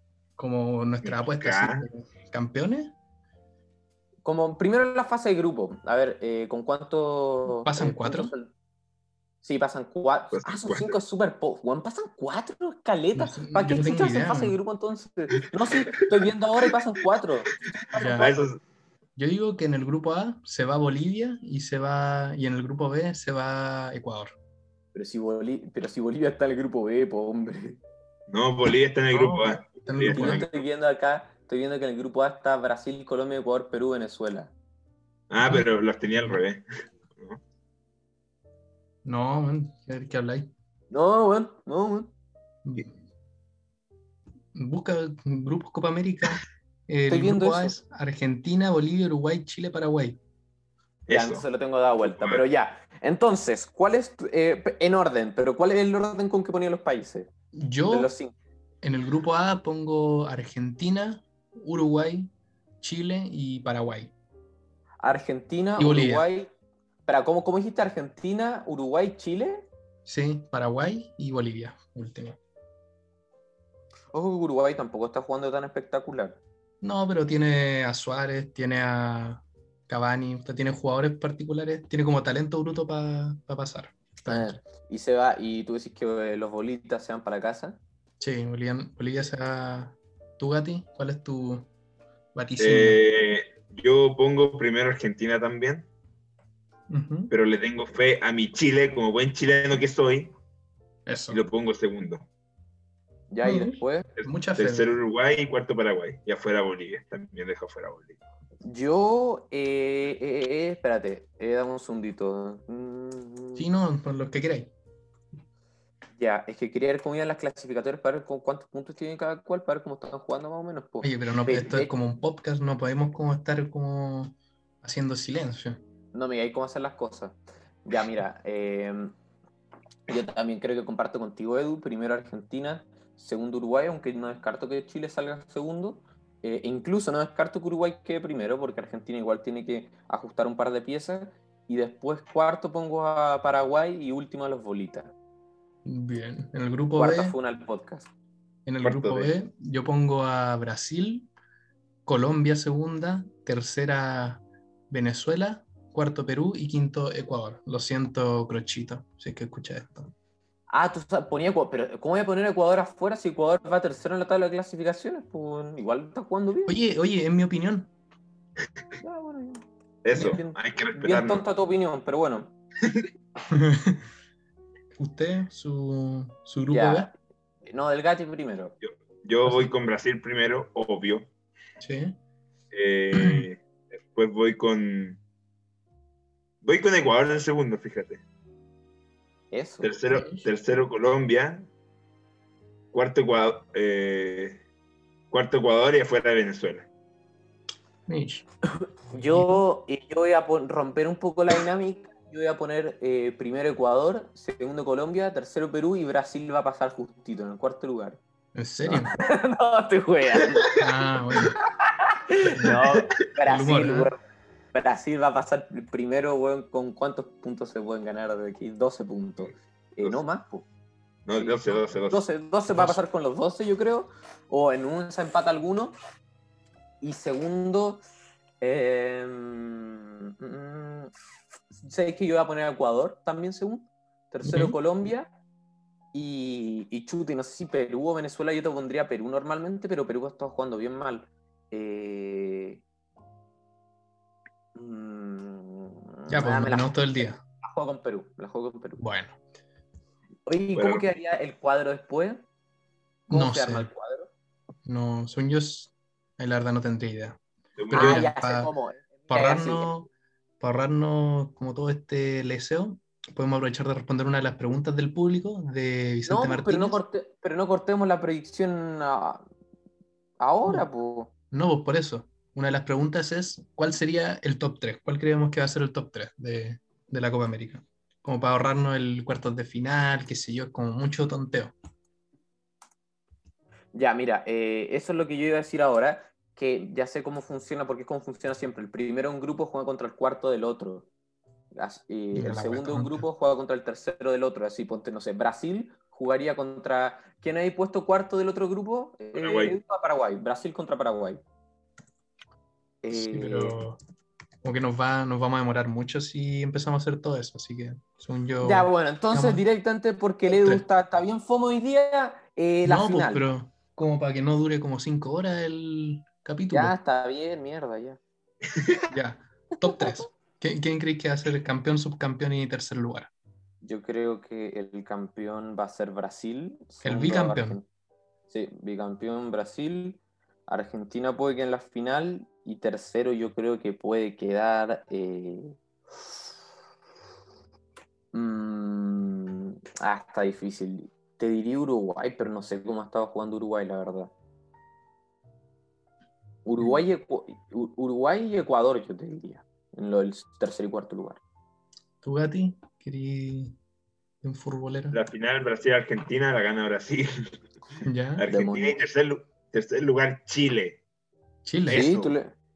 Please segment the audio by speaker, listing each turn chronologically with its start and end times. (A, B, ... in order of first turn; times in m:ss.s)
0:00.4-0:02.9 A
0:01.0-0:01.8 B
0:04.2-0:08.5 C
0:07.4-0:08.3 A
0:09.4-0:18.4 C
0:10.3-0:11.0 B
0:13.1-0:14.6 A
0:18.0-0:18.3 A
0:18.0-0:18.6 B
0:19.2-0:24.3 A
0:24.9-0:27.8 C
0:28.3-0:30.6 B
0:29.1-0:30.4 A
0:30.1-0:34.5 C
0:35.3-0:36.6 B
0:39.0-0:40.5 A
0:40.9-0:42.1 C
0:42.6-0:42.9 A
0:44.5-0:50.2 A
0:47.1-0:47.8 C
0:51.1-0:51.4 B
0:51.1-0:57.3 C
0:52.0-0:52.4 B
0:57.5-0:58.1 A
0:57.9-0:58.3 C
0:58.8-1:04.1 A
1:05.0-1:06.5 C
1:05.8-1:06.2 A
1:07.0-1:09.7 C
1:10.0-1:12.4 A
1:14.1-1:16.4 C
1:16.8-1:24.6 A
1:24.2-1:27.8 C
1:28.2-1:31.7 A
1:32.3-1:33.0 A
1:32.6-1:35.9 B
1:36.9-1:37.3 A
1:37.3-1:40.3 B
1:41.0-1:41.4 A
1:41.3-1:42.2 B
1:43.3-1:44.1 C
1:43.4-1:44.9 A
1:44.5-1:48.2 B
1:48.6-1:53.6 C
1:53.6-1:54.7 A
1:56.2-2:01.9 C
2:01.0-2:05.8 A
2:06.1-2:09.1 C
2:10.1-2:25.1 C
2:25.8-2:27.4 A
2:27.0-2:28.1 C
2:28.6-2:31.3 A
2:28.8-2:29.3 B
2:32.0-2:40.1 A
2:40.7-2:46.7 C
2:46.7-2:47.9 A
2:49.0-2:49.6 C
2:50.0-2:51.4 B
2:50.1-2:52.5 C
2:53.5-2:54.0 A
2:55.0-2:57.1 A
2:56.7-2:57.1 C
2:57.6-2:58.8 C
2:58.8-3:01.3 B
2:59.4-2:59.7 A
3:01.8-3:02.2 A
3:02.7-3:05.2 B
3:03.1-3:03.4 A
3:06.6-3:08.2 B
3:09.5-3:09.9 C
3:09.8-3:11.7 B
3:10.1-3:10.4 A
3:12.9-3:14.6 B
3:15.3-3:16.9 B
3:18.1-3:18.4 A
3:18.8-3:28.2 C
3:19.1-3:19.6 A
3:28.5-3:29.2 A
3:28.8-3:30.8 C
3:30.8-3:31.6 A
3:31.8-3:34.2 C
3:32.4-3:32.9 A
3:33.4-3:34.1 A
3:34.7-3:40.6 C
3:41.2-3:42.3 B
3:42.1-3:46.0 C
3:42.7-3:43.0 A
3:47.0-3:48.0 C
3:48.6-3:51.1 C
3:51.7-3:55.3 C
3:54.4-3:54.8 A
3:56.1-4:02.8 C
4:04.7-4:09.0 C
4:06.3-4:07.4 A
4:09.0-4:09.4 A
4:10.4-4:12.4 C
4:10.7-4:11.0 B
4:13.3-4:14.3 C
4:13.3-4:13.9 A
4:14.8-4:18.7 A
4:17.8-4:18.3 B
4:17.9-4:19.9 C
4:19.3-4:20.1 A
4:20.6-4:27.0 A
4:26.2-4:29.4 C
4:30.4-4:31.3 C
4:31.5-4:41.7 A
4:43.9-4:51.1 C
4:51.7-5:01.4 C
4:52.3-4:53.2 A
4:59.3-4:59.8 B
5:03.0-5:03.8 C
5:03.1-5:04.0 A
5:04.6-5:09.6 A
5:08.6-5:13.4 C
5:10.5-5:10.8 A
5:12.8-5:16.9 A
5:16.7-5:18.2 C
5:19.1-5:23.3 A
5:23.8-5:27.8 C
5:27.0-5:27.8 A
5:28.5-5:36.4 C
5:38.3-5:44.3 C
5:46.6-5:51.4 C
5:52.2-5:53.8 A
5:54.4-5:55.2 A
5:55.1-5:57.5 B
5:58.0-5:58.4 A
5:58.4-6:01.0 B
5:58.5-5:59.0 C
6:01.6-6:02.0 A
6:01.9-6:02.4 B
6:01.9-6:02.5 C